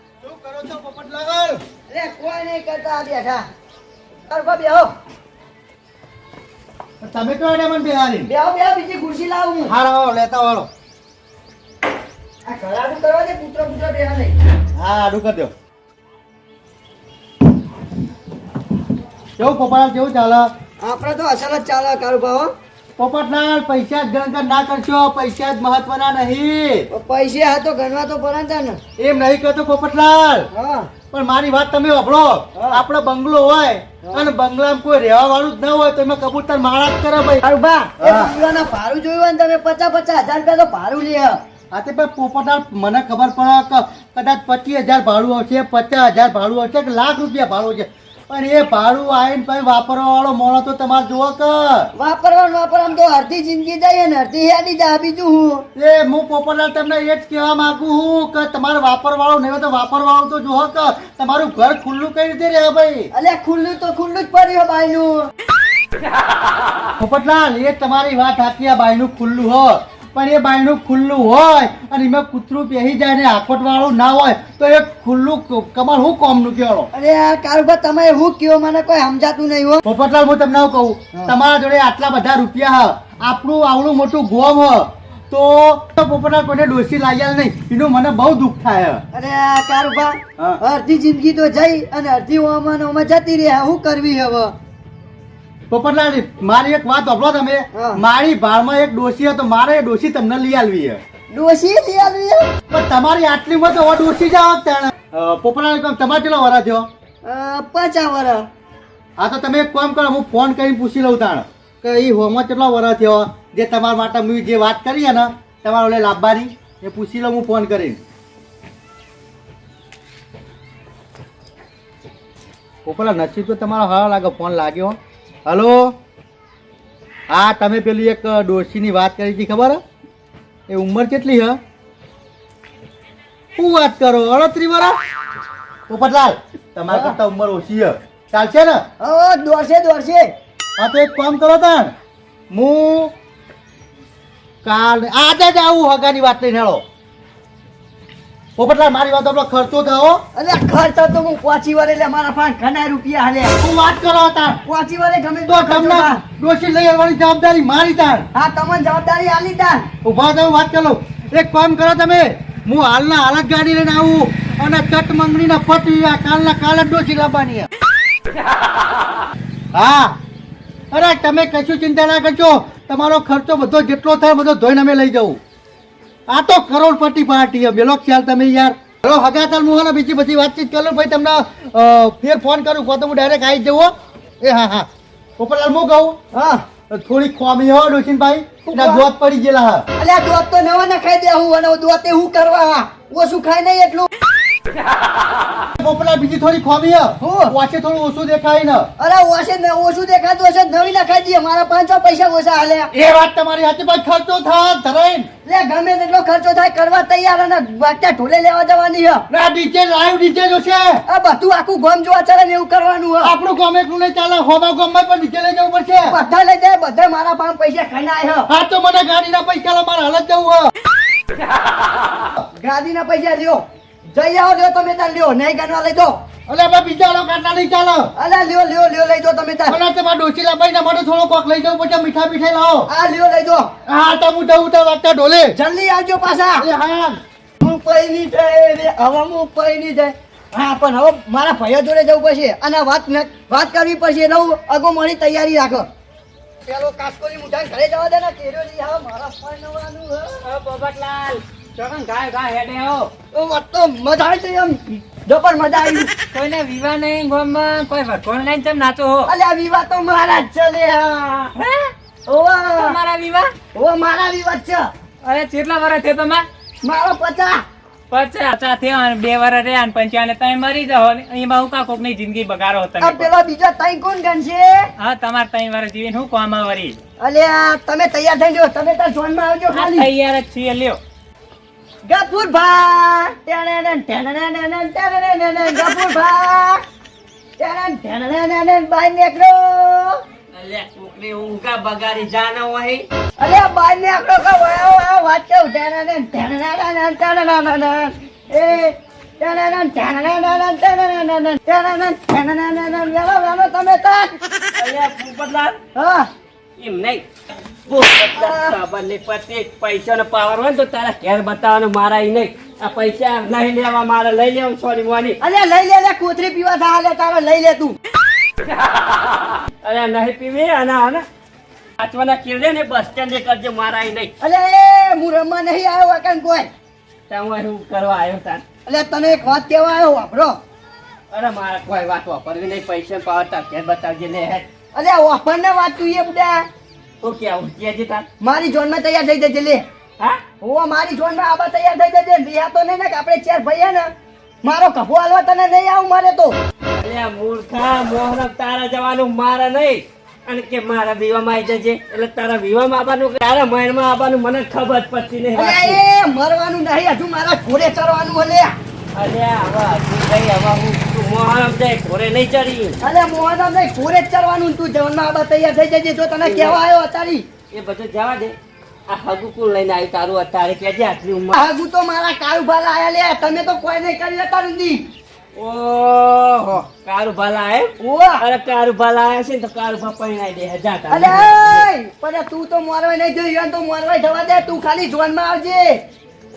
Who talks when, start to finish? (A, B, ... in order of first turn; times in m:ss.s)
0:00.2-0:01.6 A
0:01.9-0:03.4 B
0:04.3-0:04.9 B
0:07.0-0:08.3 A
0:08.2-0:09.7 B
0:09.7-0:10.7 A
0:12.5-0:14.4 B
0:14.7-0:15.5 A
0:19.4-0:20.5 A
0:20.8-0:22.5 B
0:23.0-0:26.9 A
0:26.9-0:28.8 B
0:29.0-0:30.5 A
0:30.5-0:30.9 B
0:31.1-0:37.4 A
0:32.6-0:32.8 B
0:34.0-0:34.3 B
0:37.4-0:41.4 B
0:38.0-0:38.3 A
0:41.7-0:51.9 A
0:52.0-0:55.7 B
0:55.8-1:03.1 A
1:03.1-1:05.3 B
1:07.0-1:16.9 A
1:16.9-1:19.8 B
1:19.8-1:29.0 A
1:29.1-1:34.5 B
1:35.7-1:41.0 A
1:37.7-1:38.0 B
1:41.3-1:42.5 B
1:42.7-1:46.9 A
1:47.2-1:48.5 B
1:49.2-1:58.0 A
2:02.8-2:06.0 A
2:07.3-2:09.8 A
2:10.7-2:11.6 A
2:13.6-2:15.0 A
2:15.9-2:18.8 A
2:16.9-2:17.2 B
2:19.0-2:20.3 B
2:20.8-2:21.9 A
2:22.5-2:23.1 A
2:24.6-2:26.8 A
2:28.6-2:30.2 A
2:30.4-2:33.6 B
2:33.6-2:34.6 A
2:34.6-2:36.2 B
2:35.5-2:38.3 A
2:38.3-2:39.9 B
2:40.0-2:47.7 A
2:49.7-2:50.2 A
2:50.9-2:55.4 A
2:56.3-3:06.2 A
3:06.3-3:06.6 B
3:06.9-3:09.9 A
3:08.7-3:09.1 B
3:10.0-3:14.1 B
3:15.8-3:18.9 A
3:17.2-3:17.6 B
3:19.0-3:22.9 B
3:22.9-3:25.3 A
3:25.4-3:29.2 B
3:29.3-3:31.0 A
3:31.1-3:33.3 B
3:33.2-3:36.2 A
3:36.1-3:38.5 B
3:38.5-3:40.7 A
3:42.6-3:46.2 B
3:46.5-3:48.1 A
3:48.2-3:49.8 B
3:49.7-3:52.9 A
3:52.9-3:53.7 B
3:53.8-3:55.5 A
3:55.5-3:56.7 B
3:56.6-3:57.2 A
3:57.6-4:05.9 B
4:06.7-4:10.4 B
4:10.4-4:13.1 C
4:13.3-4:16.1 B
4:16.3-4:19.3 C
4:19.3-4:21.5 B
4:21.6-4:21.9 C
4:22.3-4:23.0 B
4:22.8-4:23.5 C
4:23.7-4:24.9 B
4:25.2-4:26.5 C
4:26.8-4:27.6 B
4:28.1-4:33.3 C
4:33.0-4:34.9 B
4:35.0-4:37.0 C
4:37.2-4:40.1 B
4:39.7-4:41.0 C
4:42.1-4:46.8 B
4:47.6-4:50.2 B
4:50.5-4:53.1 D
4:53.4-5:04.4 B
5:04.8-5:05.8 D
5:06.0-5:06.3 B
5:06.8-5:07.2 D
5:07.9-5:15.4 D
5:08.2-5:08.8 B
5:15.4-5:18.0 B
5:19.8-5:21.2 D
5:22.0-5:24.3 D
5:24.4-5:26.7 B
5:27.3-5:28.6 D
5:28.9-5:30.6 B
5:31.3-5:34.7 D
5:34.9-5:36.7 B
5:37.2-5:38.3 D
5:38.4-5:39.8 B
5:40.6-5:44.1 B
5:44.6-5:46.6 B
5:46.9-5:56.0 D
5:55.6-5:58.7 B
5:59.1-6:03.0 D
6:03.0-6:07.4 B
6:06.4-6:06.8 D
6:07.7-6:08.6 D
6:09.1-6:11.6 D
6:11.5-6:15.1 B
6:15.6-6:21.9 D
6:18.0-6:18.4 B
6:21.1-6:26.0 B